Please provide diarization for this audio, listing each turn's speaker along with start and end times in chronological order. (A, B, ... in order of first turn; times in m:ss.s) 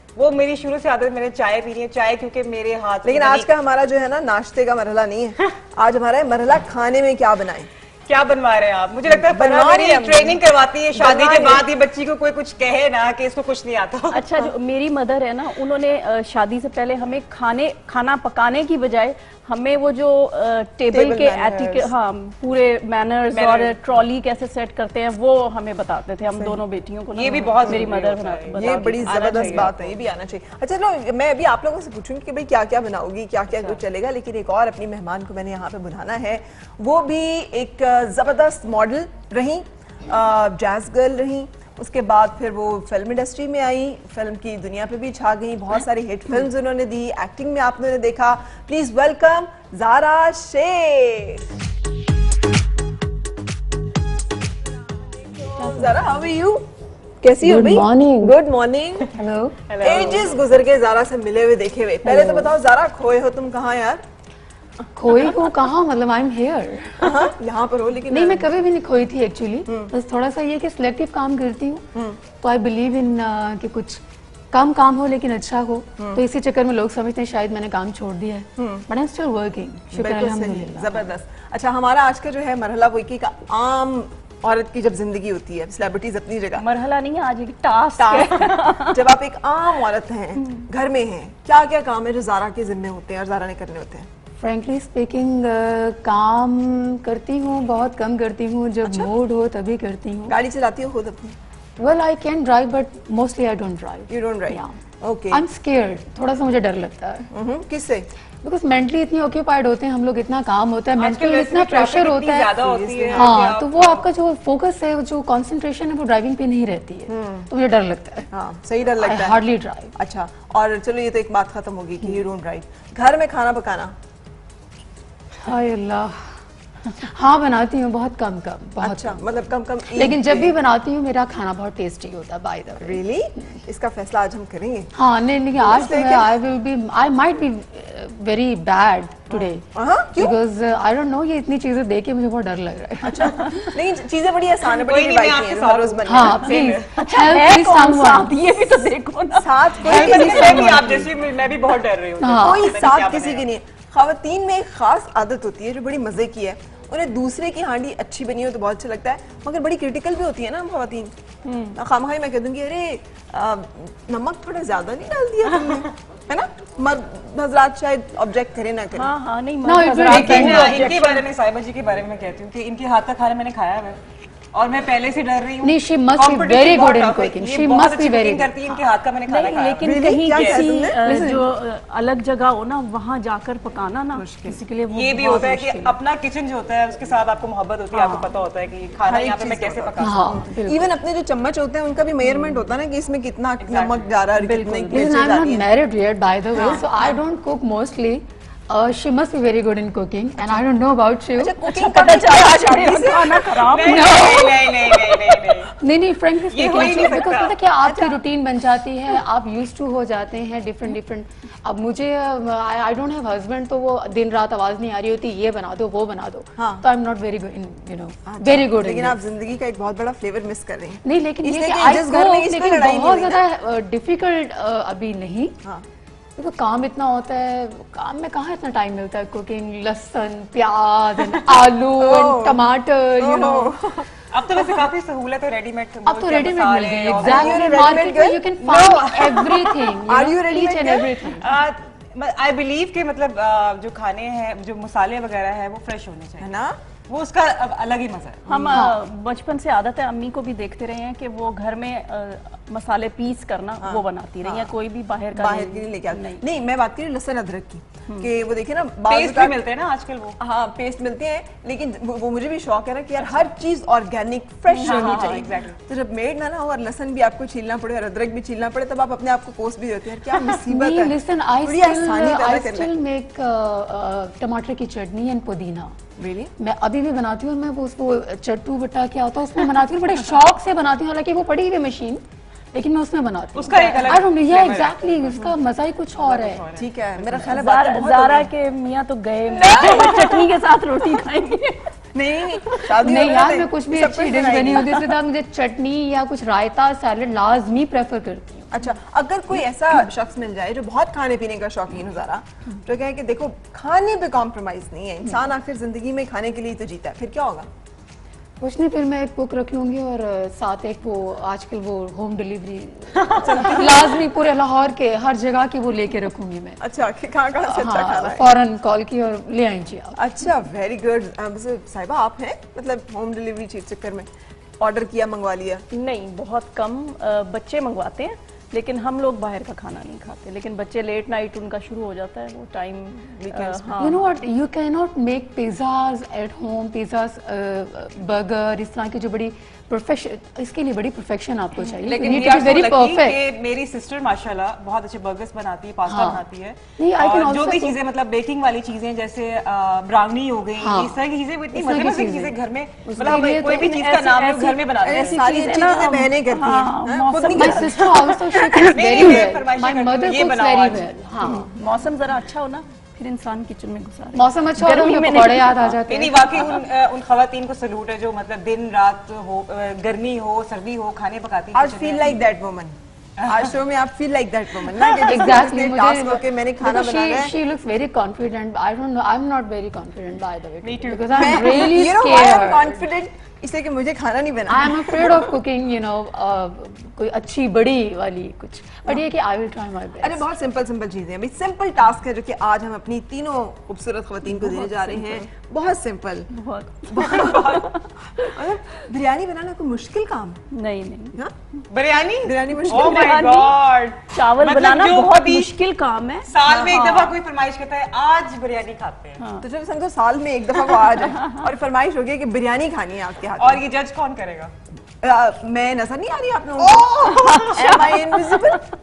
0:00.2-0:03.5 A
0:03.0-0:07.7 B
0:08.1-0:14.3 A
0:09.1-0:10.4 B
0:10.9-0:11.6 B
0:14.1-0:29.7 C
0:20.9-0:21.9 B
0:23.3-0:24.0 A
0:27.1-0:30.0 A
0:28.6-0:51.4 B
0:55.6-0:56.7 B
0:55.6-0:56.0 D
0:57.2-0:59.1 B
0:57.4-0:58.4 D
0:59.1-0:59.6 D
0:59.7-1:00.5 A
0:59.8-1:04.0 B
1:02.1-1:02.5 D
1:05.0-1:07.3 D
1:07.0-1:08.5 B
1:08.1-1:11.9 D
1:09.7-1:09.9 B
1:12.4-1:21.0 D
1:16.0-1:16.2 B
1:18.6-1:18.9 B
1:19.9-1:26.6 B
1:26.6-1:29.1 C
1:28.0-1:34.1 B
1:34.4-1:40.4 D
1:38.8-1:39.1 B
1:40.3-1:41.4 B
1:41.8-1:44.8 D
1:44.1-1:45.4 B
1:45.3-1:47.3 D
1:47.3-1:48.1 B
1:48.4-1:58.3 D
1:51.0-1:54.1 A
1:52.6-1:53.5 B
1:57.1-1:57.5 B
1:58.3-1:59.4 B
1:59.0-1:59.9 D
1:59.9-2:04.0 B
2:05.4-2:06.4 D
2:07.0-2:09.2 D
2:08.8-2:10.6 B
2:09.9-2:13.5 D
2:12.8-2:14.9 B
2:15.0-2:23.7 D
2:15.6-2:16.3 B
2:19.3-2:20.4 B
2:23.0-2:26.8 B
2:24.6-2:27.3 A
2:26.1-2:28.5 D
2:27.0-2:29.5 C
2:29.4-2:30.8 B
2:29.8-2:31.1 D
2:29.8-2:33.5 A
2:32.2-2:32.8 D
2:32.4-2:41.1 B
2:41.4-2:41.7 C
2:41.7-2:49.1 B
2:49.0-2:51.2 C
2:49.6-2:51.2 D
2:49.8-2:54.0 A
2:54.5-3:00.7 A
2:55.6-2:58.8 D
2:59.3-3:06.0 C
2:59.8-3:01.4 B
3:04.2-3:04.6 B
3:04.9-3:10.4 A
3:07.9-3:08.3 C
3:09.1-3:15.7 B
3:10.0-3:10.9 D
3:13.6-3:14.1 A
3:14.4-3:15.1 C
3:14.9-3:22.2 D
3:16.5-3:16.9 B
3:21.4-3:23.5 B
3:21.7-3:24.5 C
3:23.5-3:25.7 A
3:23.8-3:39.2 D
3:26.5-3:27.6 A
3:26.8-3:27.0 B
3:27.8-3:28.2 B
3:36.6-3:36.9 B
3:38.3-3:43.4 B
3:41.0-3:45.6 D
3:46.4-3:53.8 D
3:52.0-3:52.7 B
3:53.2-3:54.1 B
3:54.3-3:57.9 A
3:56.0-4:01.5 D
3:57.2-3:58.8 B
3:58.6-4:00.0 A
4:00.1-4:01.4 B
4:01.4-4:06.5 A
4:06.4-4:06.8 B
4:07.1-4:08.7 A
4:08.5-4:16.4 C
4:08.7-4:09.0 D
4:13.8-4:14.7 B
4:15.4-4:19.6 B
4:19.1-4:20.4 A
4:20.4-4:32.9 B
4:23.2-4:23.5 A
4:24.7-4:25.4 C
4:24.8-4:25.8 A
4:30.3-4:36.0 D
4:36.2-4:36.5 B
4:36.6-4:42.2 D
4:42.7-4:46.7 D
4:43.6-4:45.4 A
4:46.2-4:47.6 A
4:46.8-4:48.5 B
4:47.5-4:51.9 C
4:49.6-4:50.3 B
4:49.6-4:50.4 A
4:52.1-4:55.0 B
4:53.0-4:58.7 D
4:58.7-5:07.7 B
5:08.6-5:16.8 D
5:13.2-5:14.0 A
5:13.4-5:14.2 B
5:16.8-5:18.5 B
5:17.6-5:20.2 D
5:20.2-5:24.3 B
5:24.8-5:25.8 B
5:25.9-5:34.2 C
5:33.2-5:34.2 B
5:34.0-5:43.4 D
5:42.0-5:55.4 A
5:46.0-5:46.4 D
5:47.0-5:48.0 D
5:50.8-5:52.6 D
5:53.1-5:53.6 B
5:53.2-5:54.0 D
5:53.7-5:58.0 C
5:55.0-5:58.0 B
5:57.4-6:01.7 D
5:58.0-6:01.1 A
6:01.6-6:06.0 C
6:04.3-6:06.8 D
6:06.1-6:12.4 A
6:11.7-6:17.5 B
6:13.4-6:13.7 A
6:15.0-6:23.0 D
6:20.8-6:21.9 A
6:21.3-6:25.5 B
6:24.7-6:30.5 D
6:30.2-6:36.5 B
6:34.4-6:35.5 C
6:36.5-6:38.5 C
6:37.1-6:37.8 B
6:37.1-6:37.9 A
6:38.4-6:40.6 B
6:40.7-6:41.4 C
6:41.9-6:45.7 A
6:42.4-6:43.5 B
6:42.9-6:47.4 C
6:46.5-6:49.4 A
6:46.6-6:47.1 B
6:49.4-6:49.7 C
6:49.6-6:53.8 B
6:51.0-6:51.6 C
6:53.6-6:54.7 A
6:55.2-6:58.8 B
6:56.8-6:58.1 A
6:57.7-6:58.8 C